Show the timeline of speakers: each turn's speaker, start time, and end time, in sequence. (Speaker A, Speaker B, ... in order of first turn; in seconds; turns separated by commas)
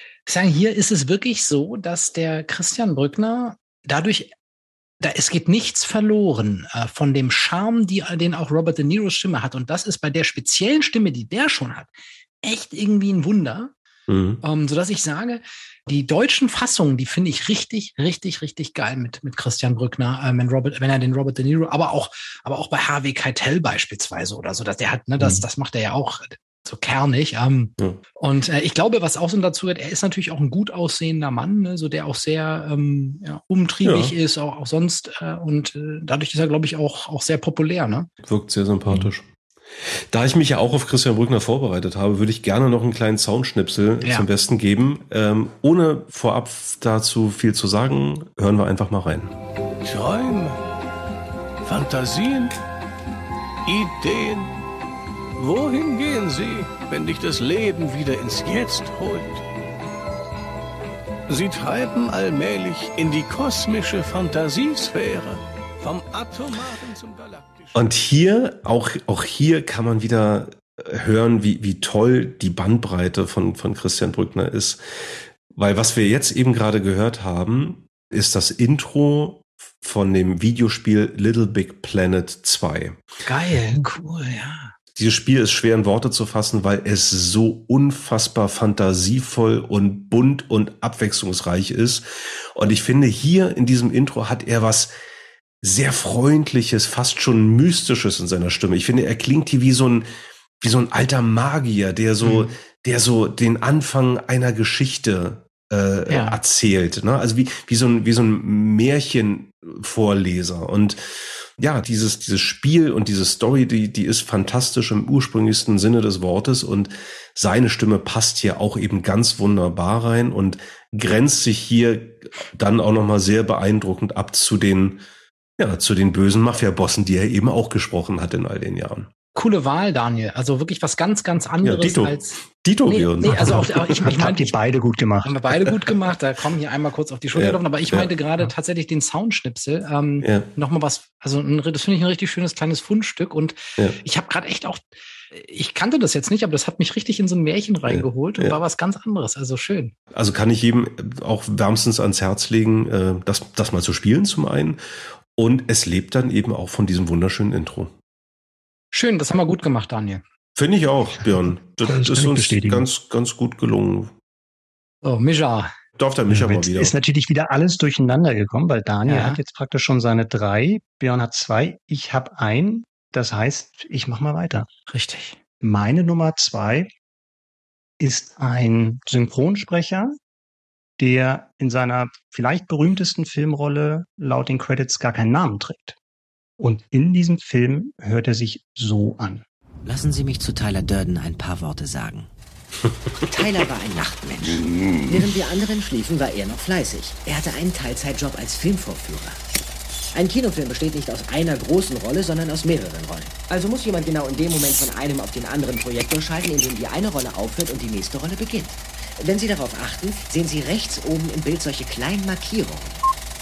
Speaker A: 0.2-4.3, Speaker A: 5.0-11.9, Speaker A: 12.4-13.7, Speaker B: 14.1-14.4, Speaker A: 14.4-38.1, Speaker B: 33.8-34.1, Speaker B: 38.2-39.3, Speaker B: 40.1-49.3, Speaker C: 49.8-50.6, Speaker C: 51.6-52.5, Speaker C: 53.6-54.5, Speaker C: 55.4-59.4, Speaker C: 61.3-67.9, Speaker B: 67.7-83.0, Speaker A: 83.2-84.7, Speaker B: 85.0-94.9, Speaker B: 95.6-100.0, Speaker B: 100.6-111.0, Speaker A: 102.2-102.5, Speaker A: 106.1-106.4, Speaker B: 111.6-125.0, Speaker B: 125.6-129.1, Speaker A: 129.3-134.5, Speaker B: 131.6-134.1, Speaker D: 133.3-135.3, Speaker A: 135.2-149.9, Speaker B: 137.3-138.1, Speaker B: 147.9-148.6, Speaker B: 150.1-154.8, Speaker B: 155.3-157.9, Speaker A: 158.9-160.2, Speaker B: 160.6-164.1, Speaker D: 161.8-162.9, Speaker A: 165.0-165.7, Speaker B: 166.0-166.9, Speaker D: 166.3-174.7, Speaker A: 169.1-169.4, Speaker A: 174.9-175.4, Speaker D: 175.6-176.9, Speaker D: 178.0-180.2, Speaker D: 181.0-185.9, Speaker D: 186.6-189.4, Speaker E: 189.9-192.3, Speaker E: 193.2-199.4, Speaker E: 200.1-212.9